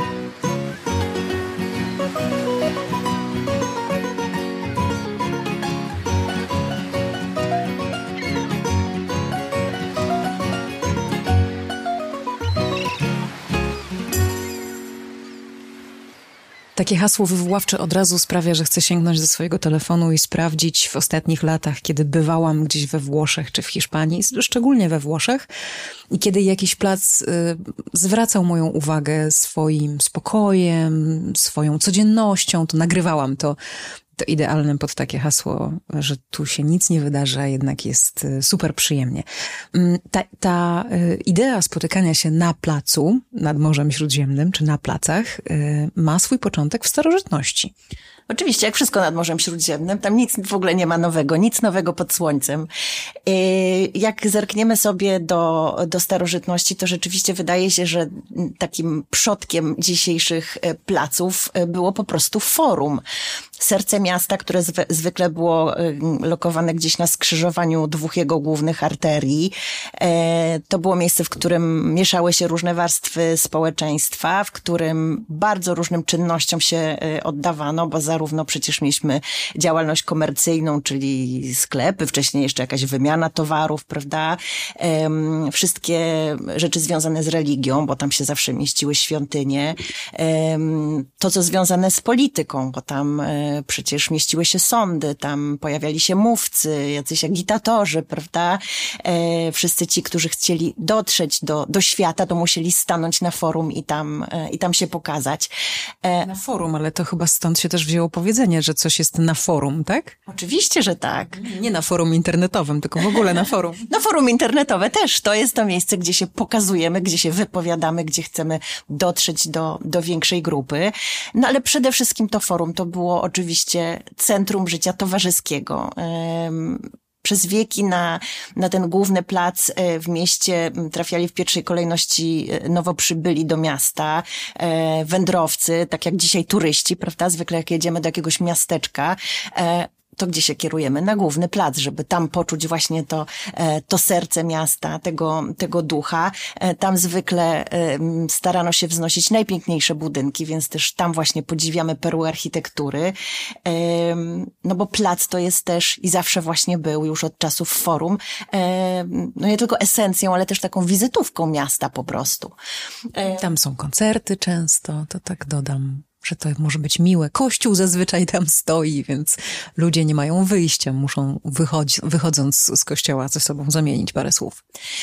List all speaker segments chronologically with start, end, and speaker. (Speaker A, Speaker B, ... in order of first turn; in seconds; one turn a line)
Speaker A: 16.8-25.4
Speaker A: 26.1-33.5
Speaker A: 34.2-47.7
Speaker B: 48.3-52.7
Speaker B: 53.2-63.0
Speaker B: 63.6-105.5
Speaker A: 106.2-110.2
Speaker B: 110.3-111.4
Speaker A: 111.3-113.8
Speaker B: 113.8-162.6
Speaker B: 163.1-163.4
Speaker A: 163.3-174.6